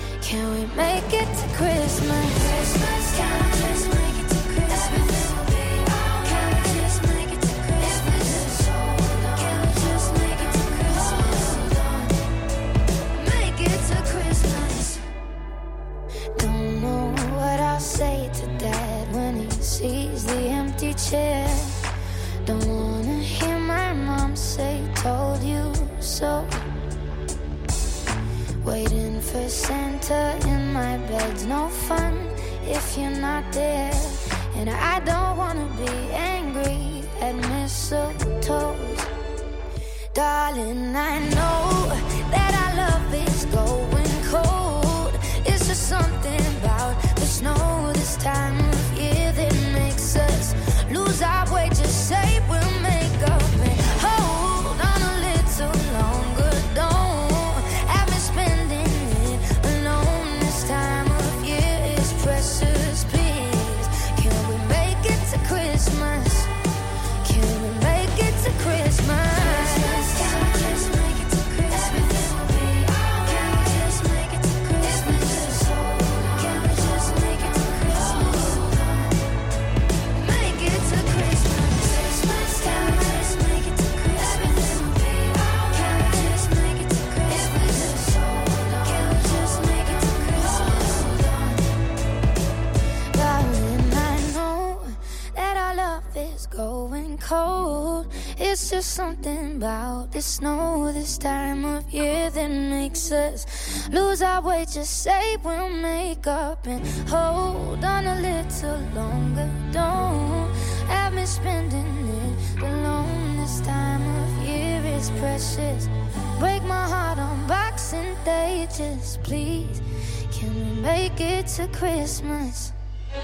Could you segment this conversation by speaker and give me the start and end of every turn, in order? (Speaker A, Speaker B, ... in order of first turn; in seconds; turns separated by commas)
Speaker A: 0.2-12.1, Speaker A: 13.1-15.0, Speaker A: 16.4-21.8, Speaker A: 22.4-26.7, Speaker A: 28.6-39.1, Speaker A: 40.1-66.5, Speaker A: 67.2-79.1, Speaker A: 80.1-91.6, Speaker A: 93.1-122.7